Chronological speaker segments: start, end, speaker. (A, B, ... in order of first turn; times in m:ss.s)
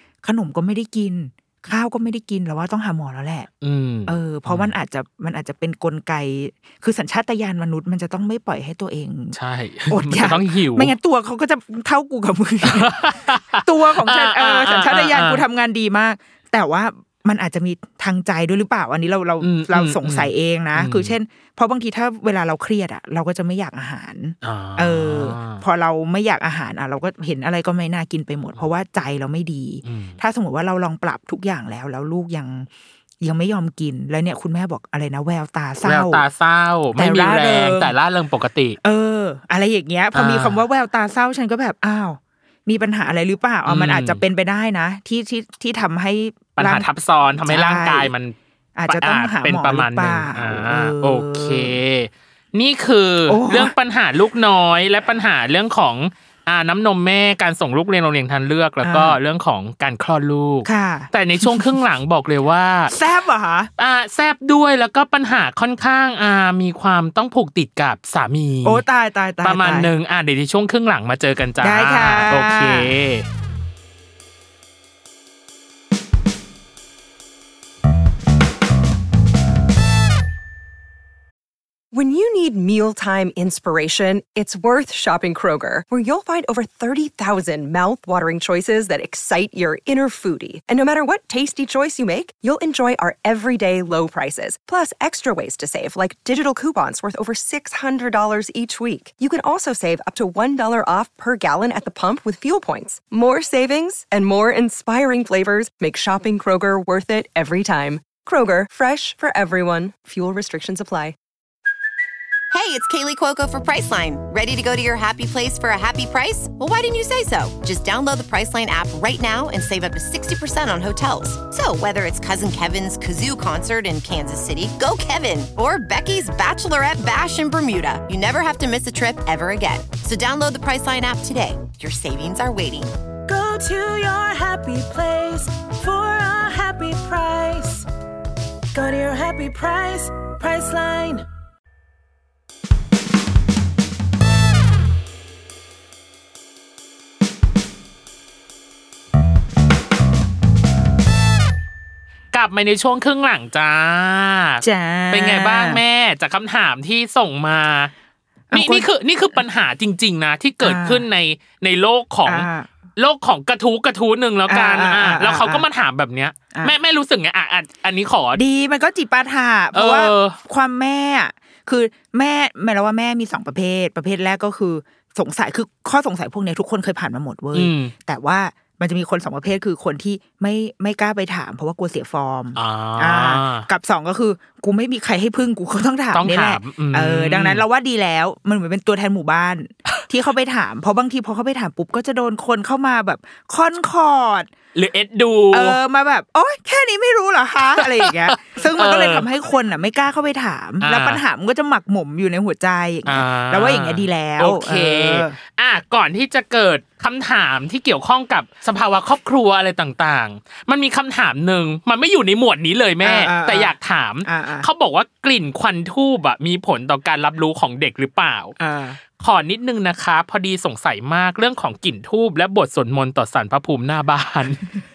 0:00.2-0:03.5 A
0:03.6-0:04.7 B
0:04.0-0:09.4 A
0:09.3-0:10.9 B
0:09.9-0:13.0 A
0:12.6-0:15.4 B
0:13.6-0:32.7 A
0:19.4-0:21.1 B
0:24.4-0:25.6 B
0:29.8-0:30.2 B
0:33.2-0:36.2 A
0:35.8-0:38.8 B
0:37.0-0:37.9 A
0:38.8-0:46.9 A
0:40.1-0:40.6 B
0:43.6-0:44.2 B
0:46.6-0:48.3 B
0:47.4-0:48.1 A
0:48.8-0:51.7 A
0:48.9-1:02.9 B
0:53.3-0:53.7 A
0:58.8-0:59.2 A
1:00.6-1:01.7 A
1:02.9-1:03.7 A
1:03.8-1:08.8 B
1:08.6-1:09.9 A
1:09.4-1:13.3 B
1:11.6-1:12.9 A
1:21.9-1:51.2 C
1:52.5-2:12.9 D
2:13.3-2:17.9 E
2:18.7-2:21.2 E
2:32.3-2:37.9 B
2:34.6-2:35.8 A
2:38.5-2:38.9 A
2:38.5-2:42.4 B
2:40.6-2:41.0 A
2:42.2-2:42.7 A
2:43.0-2:48.4 B
2:44.5-2:45.6 A
2:48.3-3:14.5 A
2:49.7-2:50.4 B
2:57.5-2:57.9 B
3:02.6-3:03.7 B
3:06.1-3:07.6 B
3:14.7-3:15.8 B
3:15.5-3:25.4 A
3:17.8-3:19.3 B
3:20.8-3:21.2 B
3:23.0-3:38.6 B
3:33.0-3:33.7 A
3:34.2-3:34.7 A
3:38.6-3:39.0 A
3:39.2-3:44.7 B